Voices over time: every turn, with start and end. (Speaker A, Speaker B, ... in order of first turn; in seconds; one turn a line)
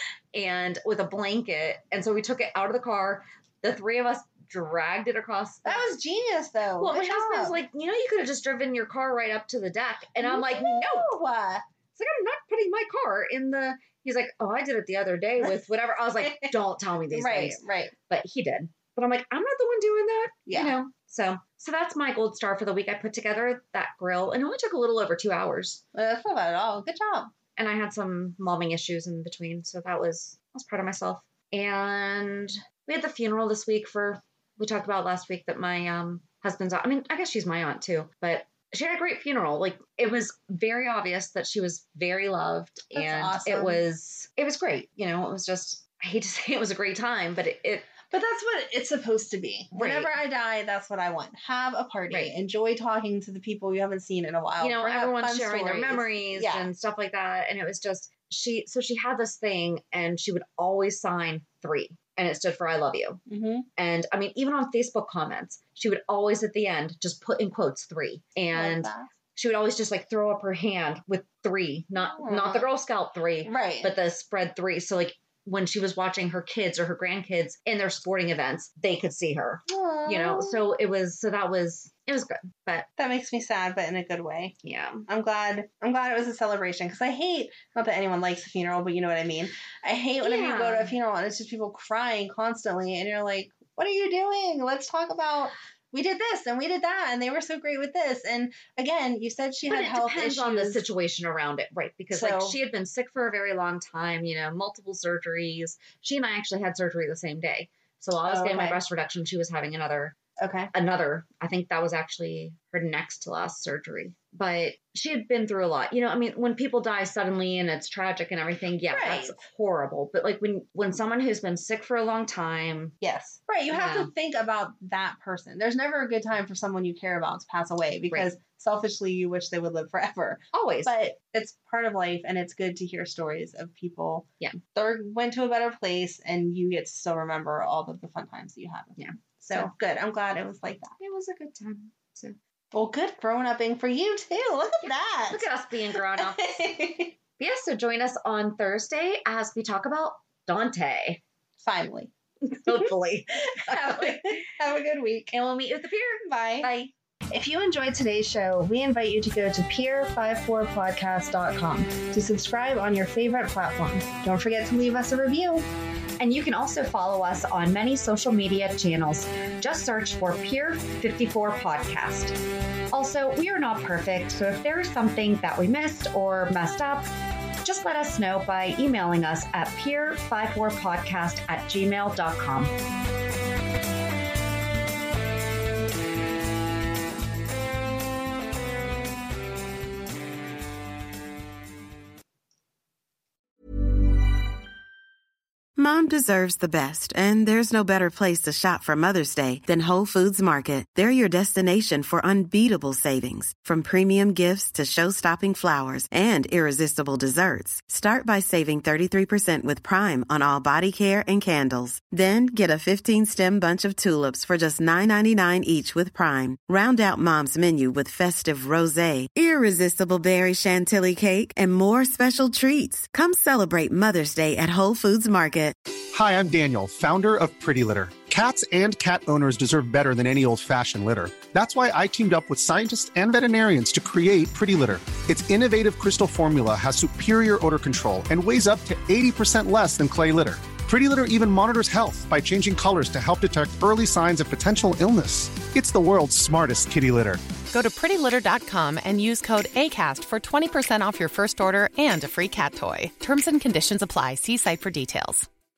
Speaker A: 0.3-5.9
Speaker B: 5.7-7.6
Speaker A: 6.8-11.1
Speaker B: 10.2-11.6
Speaker A: 11.9-25.8
Speaker B: 16.2-16.5
Speaker B: 17.1-17.9
Speaker B: 20.5-20.7
Speaker B: 25.9-27.3
Speaker A: 27.6-47.9
Speaker B: 43.0-43.9
Speaker B: 48.1-56.7
Speaker A: 49.8-50.1
Speaker A: 52.1-52.4
Speaker A: 54.6-63.2
Speaker B: 63.3-63.7
Speaker A: 63.8-82.9
Speaker B: 68.5-69.1
Speaker B: 72.1-72.7
Speaker B: 73.4-73.9
Speaker B: 79.7-80.6
Speaker B: 83.0-84.5
Speaker A: 84.6-85.1
Speaker B: 85.1-100.8
Speaker A: 90.2-90.9
Speaker A: 99.7-110.2
Speaker B: 102.1-102.6
Speaker B: 108.2-108.8
Speaker B: 110.4-110.7
Speaker A: 110.7-123.0
Speaker B: 118.9-119.4
Speaker B: 123.0-140.9
Speaker A: 123.7-124.1
Speaker A: 130.5-130.9
Speaker A: 139.0-139.7
Speaker A: 141.0-142.4
Speaker B: 142.7-145.5
Speaker A: 144.8-146.7
Speaker B: 146.2-147.2
Speaker A: 147.4-151.2
Speaker B: 151.6-152.1
Speaker A: 152.5-154.4
Speaker B: 153.7-155.3
Speaker A: 155.3-156.9
Speaker B: 156.2-156.7
Speaker B: 157.3-165.7
Speaker A: 166.2-172.4
Speaker A: 172.9-177.1
Speaker A: 177.6-182.7
Speaker C: 195.8-225.8
Speaker D: 226.1-247.5
Speaker E: 247.7-255.5